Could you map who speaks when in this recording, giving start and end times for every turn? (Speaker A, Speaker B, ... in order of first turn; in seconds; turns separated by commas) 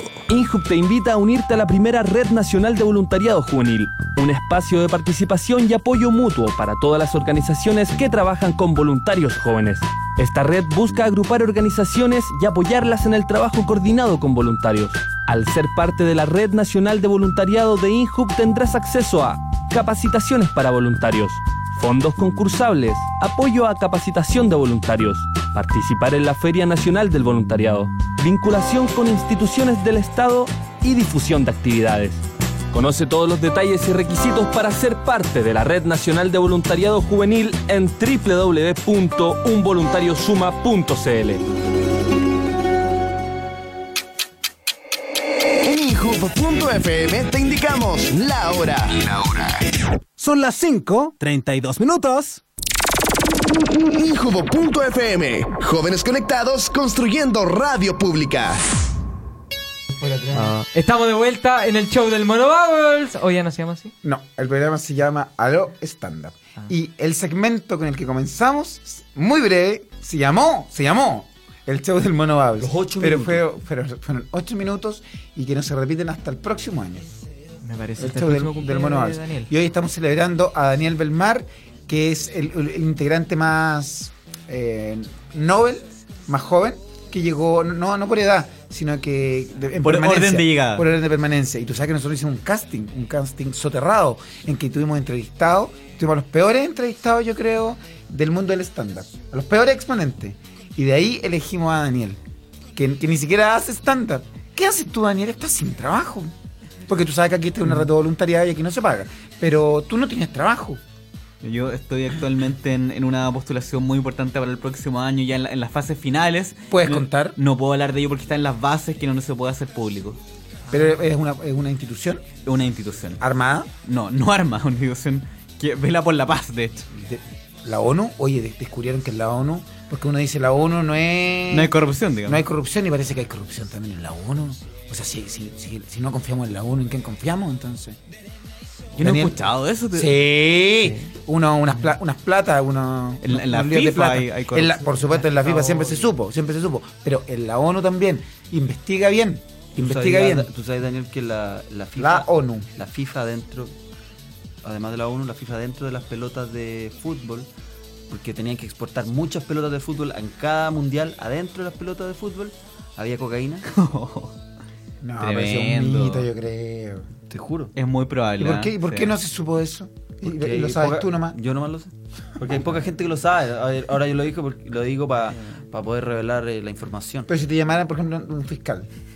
Speaker A: 0.3-41.4, Speaker B: 45.6-49.2, Speaker C: 50.2-52.4, Speaker B: 53.4-58.6, Speaker D: 59.9-60.5, Speaker E: 60.4-63.9, Speaker D: 64.0-77.1, Speaker F: 72.6-73.4, Speaker E: 77.6-79.5, Speaker D: 78.0-102.2, Speaker G: 89.8-90.9, Speaker D: 102.8-106.3, Speaker D: 106.9-110.8, Speaker G: 111.4-120.2, Speaker D: 116.7-117.4, Speaker D: 120.7-122.3, Speaker G: 122.5-123.2, Speaker D: 123.2-123.7, Speaker G: 123.8-126.9, Speaker D: 127.0-131.7, Speaker G: 131.5-132.4, Speaker D: 132.3-138.0, Speaker G: 139.0-140.2, Speaker D: 139.0-139.4, Speaker D: 139.9-150.5, Speaker G: 143.2-144.9, Speaker F: 145.4-146.1, Speaker F: 149.8-153.8, Speaker D: 152.0-152.7, Speaker F: 154.6-157.5, Speaker F: 158.1-163.7, Speaker G: 163.7-164.3, Speaker D: 165.0-167.1, Speaker G: 165.2-166.3, Speaker F: 167.3-167.7, Speaker G: 167.8-169.2, Speaker D: 168.4-171.4, Speaker F: 170.2-177.3, Speaker D: 177.3-178.9